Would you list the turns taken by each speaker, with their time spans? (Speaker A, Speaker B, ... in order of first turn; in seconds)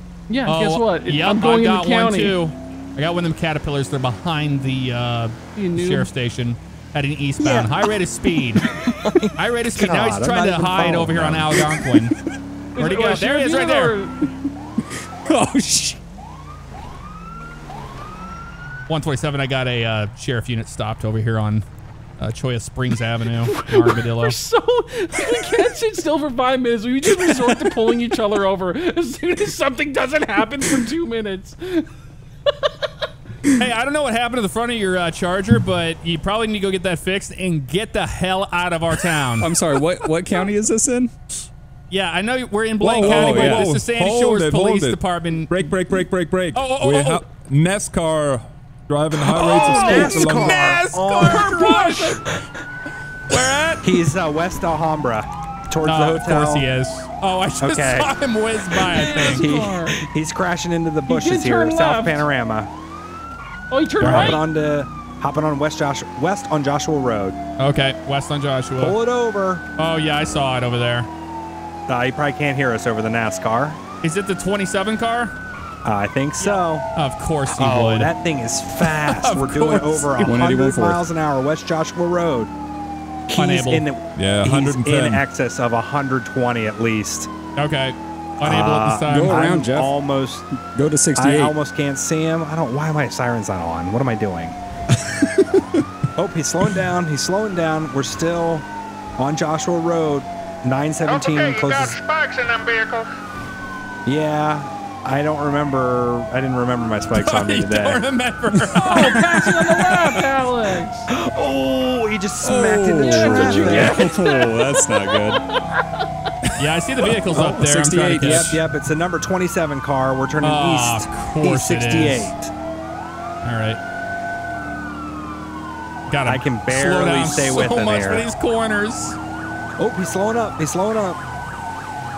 Speaker A: 0.3-2.4, 5.5-6.1, 12.7-14.1, 23.4-31.9, 49.6-50.2, 51.2-52.2, 58.8-60.0, 61.0-62.2, 63.7-64.5, 108.8-111.1, 113.0-116.0
Speaker B: 0.5-8.6, 9.4-12.1, 12.8-13.9, 18.9-21.6, 22.2-24.4, 33.6-39.5, 41.9-45.7, 46.5-47.2, 49.5-52.2, 53.3-53.9, 55.8-59.4, 64.0-64.4, 67.6-69.0, 69.8-71.1, 74.0-75.3, 76.4-78.1, 78.8-80.3, 83.3-83.9, 87.6-89.4, 107.1-110.2, 116.5-118.6, 120.4-122.3, 123.4-123.8, 126.1-129.2
Speaker C: 7.4-7.7, 8.7-11.8, 49.2-51.7, 53.8-56.7, 57.6-58.1, 59.0-62.7, 64.0-67.4, 68.8-69.6, 71.9-73.8, 75.8-76.9, 77.5-82.5, 83.3-87.3, 88.4-90.5, 91.1-94.6, 96.2-102.0, 104.0-108.0, 111.1-114.2, 117.3-122.5, 126.2-128.2, 129.8-131.2
Speaker D: 15.2-16.0, 39.4-41.1, 43.0-43.7, 80.2-81.0, 89.1-89.9, 90.7-91.5, 112.4-115.4, 117.3-118.6
Speaker E: 42.8-50.8, 84.2-85.2
Speaker F: 101.0-103.1